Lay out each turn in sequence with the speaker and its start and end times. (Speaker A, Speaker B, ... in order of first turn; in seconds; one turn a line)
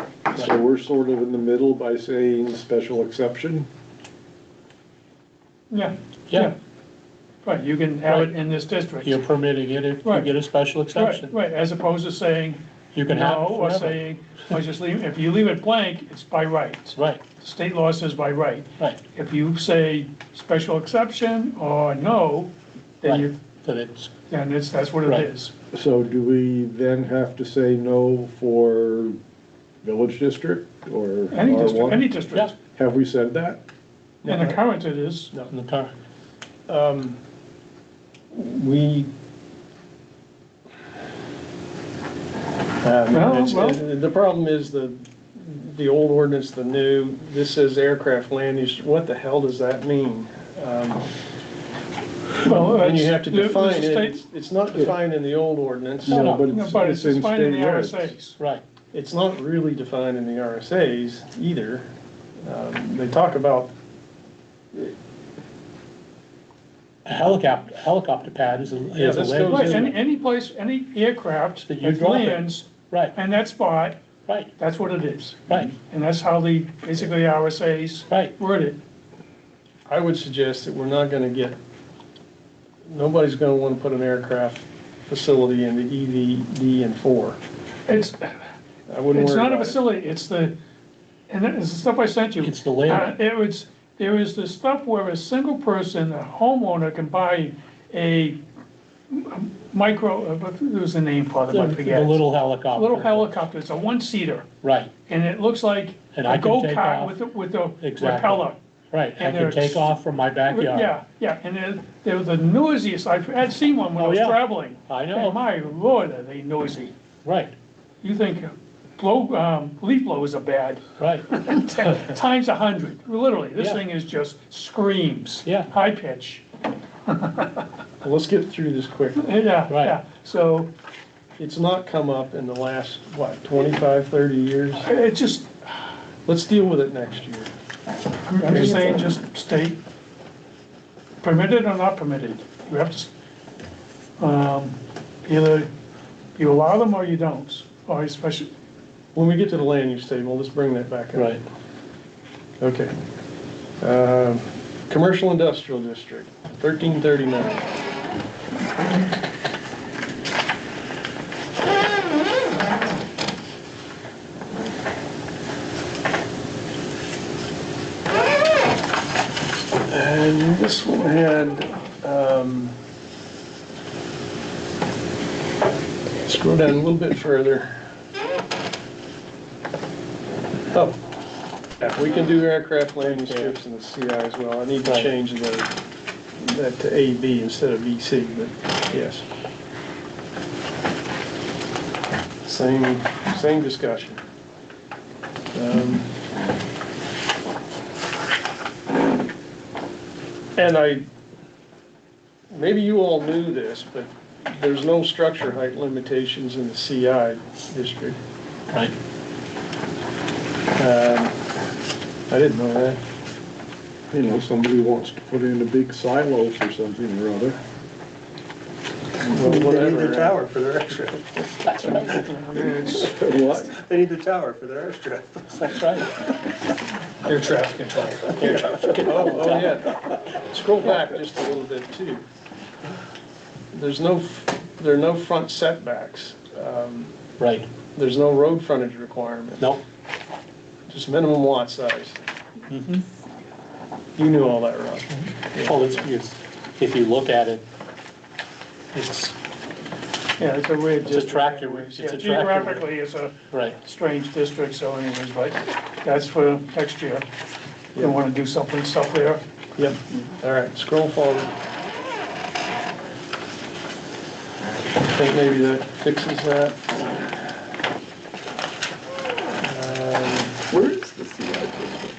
Speaker A: 0.3-3.7
Speaker B: 5.7-6.5
Speaker B: 7.4-9.2
Speaker C: 8.1-8.3
Speaker C: 9.0-11.3
Speaker B: 10.0-10.3
Speaker B: 10.9-23.4
Speaker C: 12.9-14.0
Speaker C: 17.0-17.2
Speaker C: 23.0-24.1
Speaker B: 24.3-25.5
Speaker C: 25.0-25.3
Speaker A: 25.7-29.2
Speaker A: 29.8-32.2
Speaker B: 31.3-32.5
Speaker A: 32.8-33.6
Speaker D: 34.2-34.6
Speaker B: 34.2-35.3
Speaker C: 35.5-35.9
Speaker D: 36.7-37.2
Speaker D: 38.3-39.1
Speaker D: 42.8-51.1
Speaker B: 43.1-43.8
Speaker B: 52.4-54.2
Speaker D: 52.4-56.4
Speaker A: 56.0-58.1
Speaker C: 56.1-56.5
Speaker B: 56.5-58.4
Speaker D: 58.9-61.9
Speaker D: 62.5-63.7
Speaker C: 67.0-69.8
Speaker D: 69.0-70.0
Speaker B: 69.5-74.0
Speaker C: 71.7-73.2
Speaker B: 74.6-78.8
Speaker C: 75.5-75.7
Speaker D: 79.9-81.6
Speaker D: 82.8-87.4
Speaker B: 87.9-88.4
Speaker D: 88.9-89.8
Speaker B: 89.1-90.5
Speaker B: 91.3-98.4
Speaker C: 92.4-93.1
Speaker B: 99.1-102.2
Speaker C: 101.5-103.3
Speaker B: 102.7-104.5
Speaker C: 104.6-104.9
Speaker B: 105.1-108.6
Speaker C: 106.1-107.2
Speaker C: 107.8-110.9
Speaker B: 109.2-109.9
Speaker B: 110.5-116.9
Speaker C: 114.0-115.4
Speaker C: 117.2-117.5
Speaker B: 118.0-126.4
Speaker C: 121.0-121.3
Speaker C: 125.5-125.7
Speaker B: 127.1-127.7
Speaker D: 128.0-129.3
Speaker B: 129.2-130.7
Speaker C: 129.7-130.0
Speaker D: 131.4-134.9
Speaker B: 134.8-135.9
Speaker D: 136.3-137.5
Speaker B: 138.3-139.8
Speaker D: 138.4-139.0
Speaker B: 141.2-143.1
Speaker B: 144.2-145.7
Speaker B: 146.4-148.5
Speaker D: 149.2-151.4
Speaker C: 151.2-151.4
Speaker D: 152.6-152.9
Speaker D: 153.8-157.6
Speaker D: 169.8-172.8
Speaker D: 176.2-177.8
Speaker D: 180.7-181.0
Speaker D: 181.8-185.7
Speaker C: 183.0-183.5
Speaker D: 186.4-189.2
Speaker D: 192.4-194.2
Speaker D: 195.5-196.1
Speaker D: 200.6-201.1
Speaker D: 202.5-208.2
Speaker C: 208.7-208.9
Speaker D: 210.8-211.4
Speaker D: 212.3-213.0
Speaker A: 214.1-217.6
Speaker D: 219.2-220.4
Speaker E: 219.4-222.0
Speaker C: 221.7-222.2
Speaker B: 221.9-223.2
Speaker A: 223.0-223.7
Speaker E: 223.6-225.8
Speaker C: 225.5-226.1
Speaker D: 227.5-232.2
Speaker C: 228.4-229.8
Speaker D: 233.7-237.1
Speaker C: 237.4-237.7
Speaker D: 237.9-239.7
Speaker D: 240.9-242.2
Speaker C: 242.7-243.1
Speaker D: 244.2-246.1
Speaker C: 245.6-247.6
Speaker C: 248.9-249.3
Speaker B: 250.4-257.3
Speaker C: 251.1-252.9
Speaker C: 253.5-253.8
Speaker B: 258.0-259.4
Speaker D: 259.8-261.5
Speaker D: 265.0-266.9
Speaker D: 269.6-270.6
Speaker E: 270.8-271.8